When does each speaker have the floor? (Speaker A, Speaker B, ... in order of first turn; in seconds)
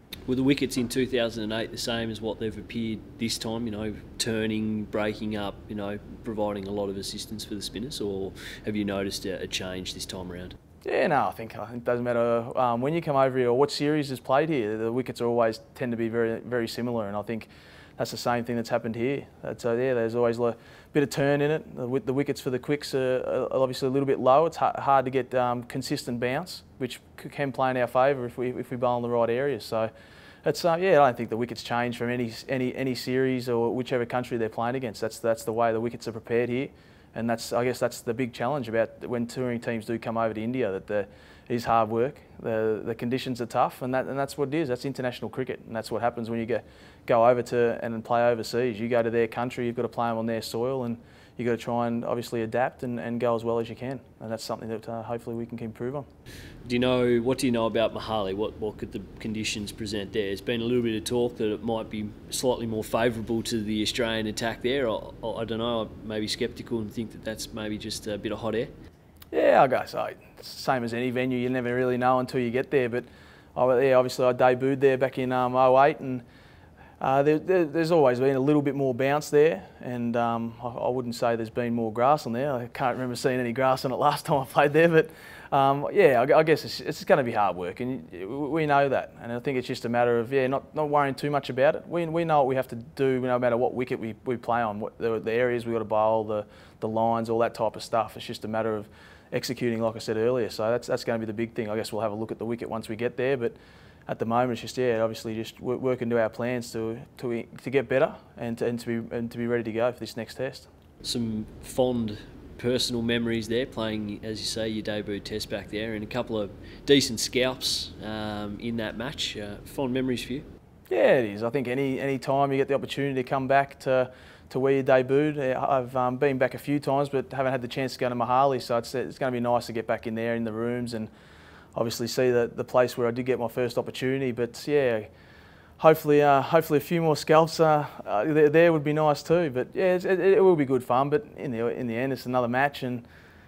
Speaker A: 0.3-10.6, 56.7-68.8, 111.0-120.5
Speaker B: 10.8-29.9, 30.4-56.1, 69.3-76.2, 77.0-103.6, 104.1-110.7, 120.9-131.1, 131.8-135.1, 135.8-143.1